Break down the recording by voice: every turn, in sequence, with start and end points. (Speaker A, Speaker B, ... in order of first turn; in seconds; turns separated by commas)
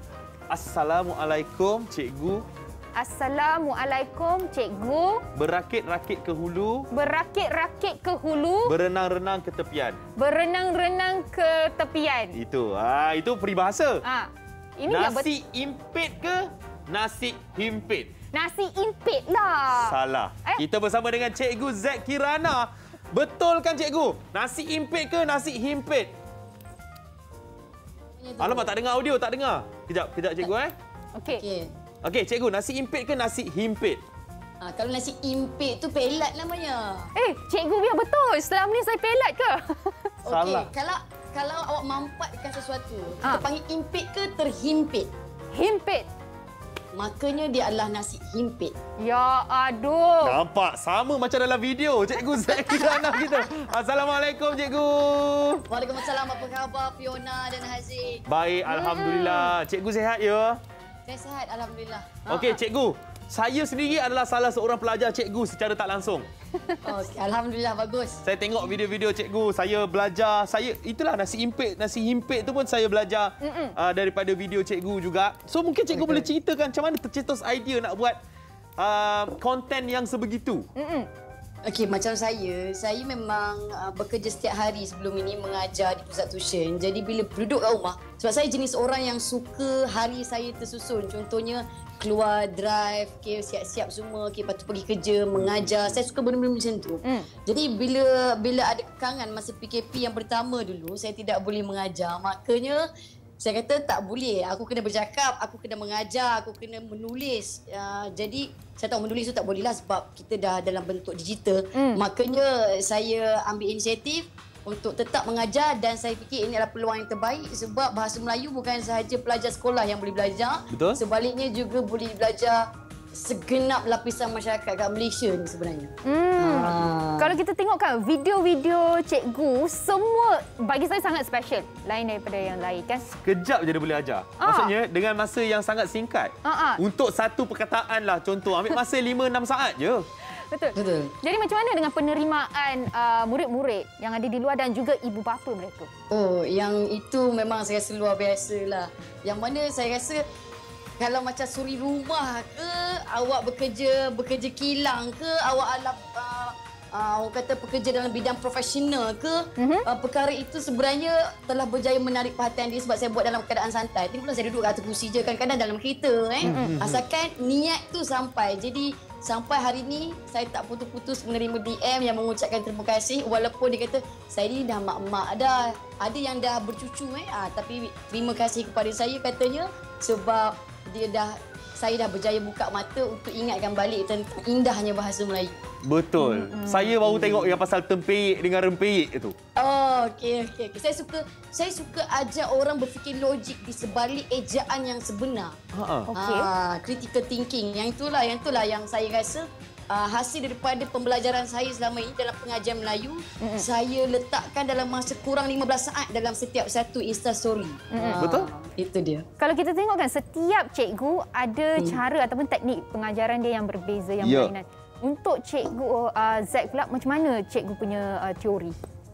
Speaker A: 0.5-2.5, Speaker B: 3.0-5.2, Speaker A: 5.3-6.9, Speaker B: 6.9-8.8, Speaker A: 8.7-10.0, Speaker B: 10.2-12.4, Speaker A: 12.3-14.1, Speaker B: 14.0-15.3, Speaker A: 14.9-18.1, Speaker B: 18.3-20.6, Speaker A: 19.7-26.1, Speaker C: 28.2-28.8, Speaker A: 28.4-30.8, Speaker B: 31.1-31.4, Speaker C: 31.3-31.7, Speaker A: 32.0-34.0, Speaker C: 34.6-37.1, Speaker B: 37.2-40.1, Speaker C: 40.2-45.1, Speaker A: 40.3-40.7, Speaker B: 45.5-46.1, Speaker C: 46.9-48.8, Speaker B: 49.0-50.4, Speaker A: 50.2-55.6, Speaker C: 55.7-58.2, Speaker A: 58.3-60.6, Speaker B: 58.7-59.5, Speaker C: 61.1-62.4, Speaker A: 62.3-66.3, Speaker C: 66.8-68.2, Speaker A: 68.2-78.2, Speaker B: 73.4-73.7, Speaker C: 75.9-76.3, Speaker A: 78.8-80.7, Speaker B: 80.8-81.1, Speaker C: 81.7-102.8, Speaker A: 95.3-96.0, Speaker C: 103.4-127.4, Speaker B: 111.7-112.0, Speaker A: 120.7-121.0, Speaker B: 126.0-133.1, Speaker A: 133.2-140.1, Speaker B: 134.4-134.7, Speaker B: 136.4-136.8, Speaker B: 140.3-145.9, Speaker C: 140.8-141.2, Speaker C: 146.1-150.2, Speaker C: 151.0-185.6, Speaker B: 159.6-159.9, Speaker A: 166.4-167.0, Speaker B: 166.4-166.7, Speaker A: 185.8-189.3, Speaker B: 186.2-187.0, Speaker C: 187.1-187.6, Speaker C: 189.6-195.6, Speaker A: 195.7-196.1, Speaker B: 196.1-196.5, Speaker C: 196.2-209.2, Speaker B: 207.9-208.2, Speaker A: 208.2-208.5, Speaker B: 209.4-218.8, Speaker A: 214.2-214.5